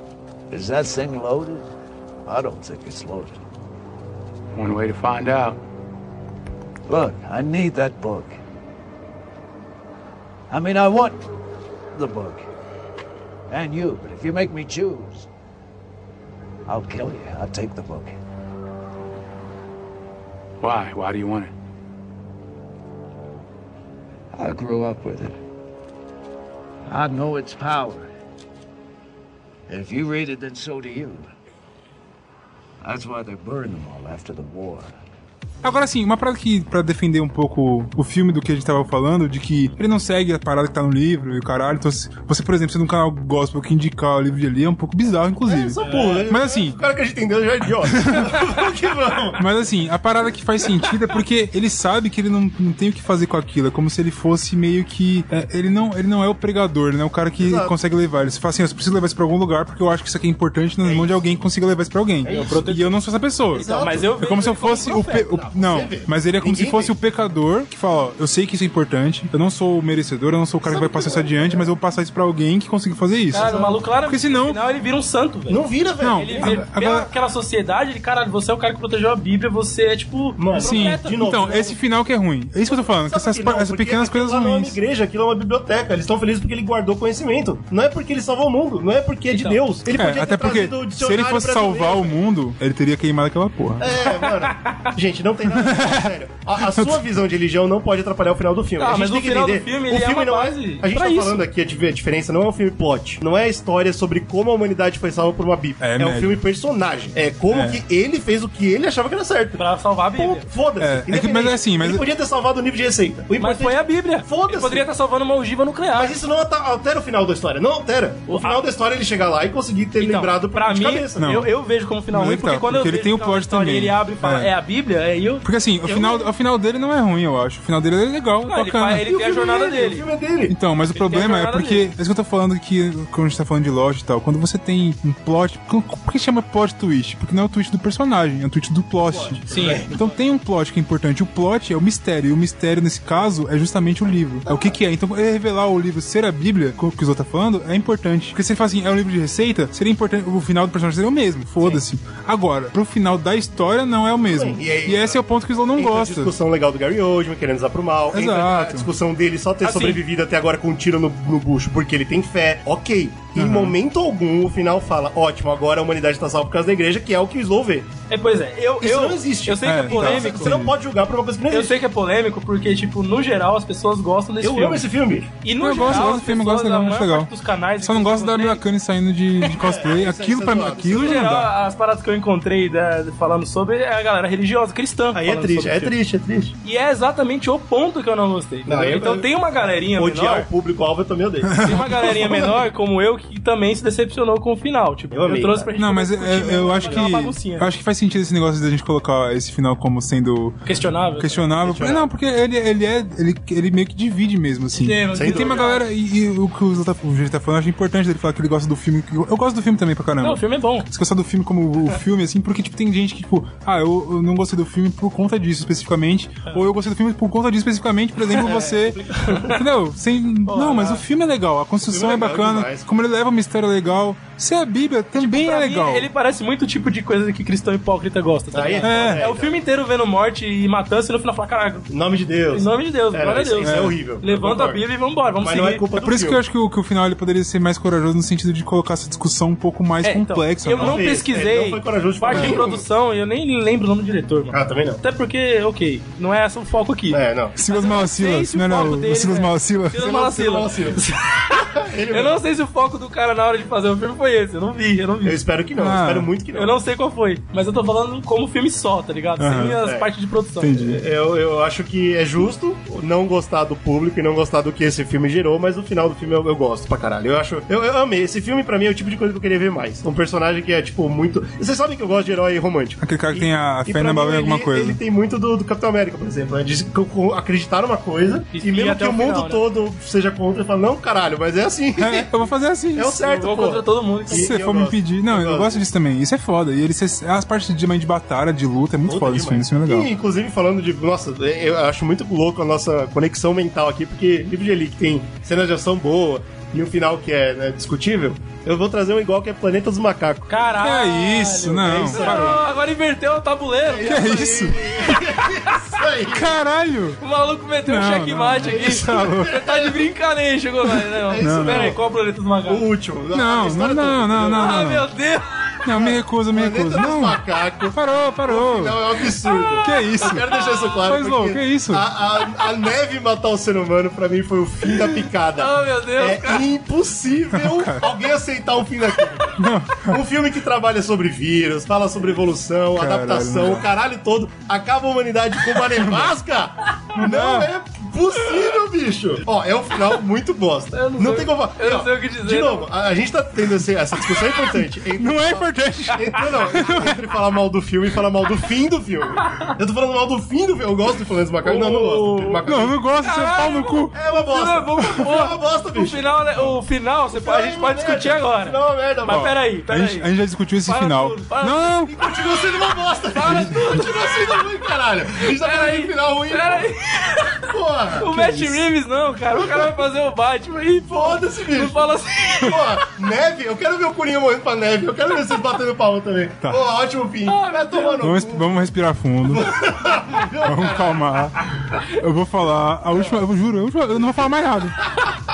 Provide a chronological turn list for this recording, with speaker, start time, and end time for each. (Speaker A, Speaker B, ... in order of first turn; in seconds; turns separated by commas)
Speaker A: 0.5-1.7, Speaker A: 2.3-3.4, Speaker B: 4.5-5.6, Speaker A: 6.9-8.4, Speaker A: 10.5-11.2, Speaker A: 11.9-12.4, Speaker A: 13.5-15.3, Speaker A: 16.7-18.2, Speaker B: 20.6-21.5, Speaker A: 24.3-25.4, Speaker A: 26.9-28.1, Speaker A: 29.7-31.3, Speaker A: 32.8-35.0, Speaker C: 35.6-46.8, Speaker D: 45.5-49.4, Speaker E: 45.8-46.3, Speaker C: 47.8-48.5, Speaker C: 49.4-73.5, Speaker D: 57.4-57.8, Speaker D: 60.8-61.3, Speaker D: 62.2-62.6, Speaker E: 62.3-63.0, Speaker D: 63.5-64.1, Speaker E: 63.5-65.3, Speaker D: 65.1-67.0, Speaker D: 70.6-71.7, Speaker E: 73.3-75.7, Speaker D: 73.3-73.8, Speaker C: 74.0-74.6, Speaker D: 75.5-76.6, Speaker C: 76.0-77.1, Speaker E: 76.2-81.2, Speaker D: 80.4-81.8, Speaker C: 80.6-84.8, Speaker D: 82.7-92.2, Speaker E: 89.3-89.6, Speaker C: 89.9-94.0, Speaker D: 93.8-109.6, Speaker E: 94.2-94.8, Speaker C: 95.5-97.1, Speaker E: 98.8-101.5, Speaker C: 105.8-106.4, Speaker C: 107.5-107.8, Speaker E: 109.6-110.5, Speaker D: 110.2-114.9, Speaker C: 110.8-112.0, Speaker E: 113.4-116.2, Speaker D: 116.0-121.4, Speaker E: 118.3-118.6, Speaker E: 120.0-126.2, Speaker C: 121.2-121.5, Speaker C: 122.1-124.5, Speaker C: 125.4-129.1, Speaker E: 128.5-130.1, Speaker D: 129.1-130.6, Speaker C: 130.5-156.3, Speaker E: 130.9-131.9, Speaker D: 139.1-139.9, Speaker E: 139.5-140.1, Speaker D: 144.5-144.8, Speaker D: 154.3-155.2, Speaker D: 155.8-167.9, Speaker C: 158.1-158.9, Speaker E: 159.6-160.0, Speaker C: 163.3-163.8, Speaker E: 168.1-170.6, Speaker D: 168.8-171.8, Speaker C: 169.6-170.7, Speaker E: 171.5-174.9, Speaker D: 174.4-175.3, Speaker E: 175.4-178.6, Speaker C: 175.6-181.5, Speaker D: 179.5-181.2, Speaker E: 180.9-185.9, Speaker D: 185.1-186.6, Speaker E: 186.6-190.5, Speaker D: 188.7-189.3, Speaker D: 190.0-192.6, Speaker C: 191.4-192.1, Speaker E: 191.7-197.7, Speaker D: 195.1-195.7, Speaker C: 195.8-200.6, Speaker D: 196.6-197.1, Speaker E: 200.7-201.5, Speaker C: 201.2-226.1, Speaker D: 201.6-202.1, Speaker E: 204.7-205.9, Speaker D: 205.1-205.7, Speaker E: 210.2-210.9, Speaker D: 218.3-219.5, Speaker E: 219.2-219.6, Speaker E: 220.5-221.0, Speaker D: 221.9-222.9, Speaker E: 225.2-231.9, Speaker D: 228.5-229.6, Speaker C: 228.8-229.3, Speaker D: 231.9-234.8, Speaker E: 232.5-235.8, Speaker C: 233.6-234.0, Speaker D: 235.4-236.4, Speaker C: 235.9-241.1, Speaker E: 240.0-255.4, Speaker D: 240.8-242.8, Speaker C: 242.3-242.7, Speaker D: 244.5-245.0, Speaker D: 247.1-247.6, Speaker C: 247.6-250.1, Speaker D: 250.0-252.4, Speaker D: 255.2-256.8, Speaker C: 255.8-256.3, Speaker E: 256.5-260.8, Speaker C: 259.4-259.8, Speaker D: 259.5-260.1, Speaker C: 260.6-261.0, Speaker D: 260.7-282.3, Speaker C: 273.0-275.0, Speaker E: 278.5-279.6, Speaker C: 282.0-283.2, Speaker D: 282.9-285.8, Speaker E: 283.2-284.5, Speaker C: 284.3-290.1, Speaker D: 289.1-300.5, Speaker E: 300.5-304.7, Speaker C: 300.8-302.6, Speaker D: 301.8-302.6, Speaker D: 303.9-306.5, Speaker C: 304.0-305.2, Speaker C: 306.3-307.2, Speaker E: 307.2-312.9, Speaker C: 307.9-309.6, Speaker D: 308.6-310.0, Speaker D: 311.3-312.0, Speaker C: 311.4-311.9, Speaker D: 312.7-314.8, Speaker C: 313.3-315.1, Speaker E: 314.6-315.8, Speaker C: 315.9-319.0, Speaker D: 315.9-353.0, Speaker E: 319.5-321.0, Speaker C: 319.8-320.5, Speaker C: 321.0-322.1, Speaker E: 325.6-326.7, Speaker C: 327.5-328.1, Speaker C: 329.6-330.2, Speaker C: 333.0-333.9, Speaker C: 335.8-336.3, Speaker C: 337.1-337.7, Speaker E: 340.9-342.9, Speaker C: 344.5-347.2, Speaker E: 351.6-352.6, Speaker C: 352.7-354.1, Speaker E: 353.2-360.3, Speaker D: 354.1-356.2, Speaker D: 357.3-359.5, Speaker C: 359.3-362.1, Speaker E: 360.9-361.9, Speaker D: 362.1-366.9, Speaker E: 363.3-373.1, Speaker C: 363.4-363.8, Speaker D: 367.6-368.3, Speaker C: 368.3-368.9, Speaker D: 371.1-378.8, Speaker E: 377.5-378.3, Speaker C: 378.2-379.8, Speaker D: 379.5-381.6, Speaker C: 380.6-385.1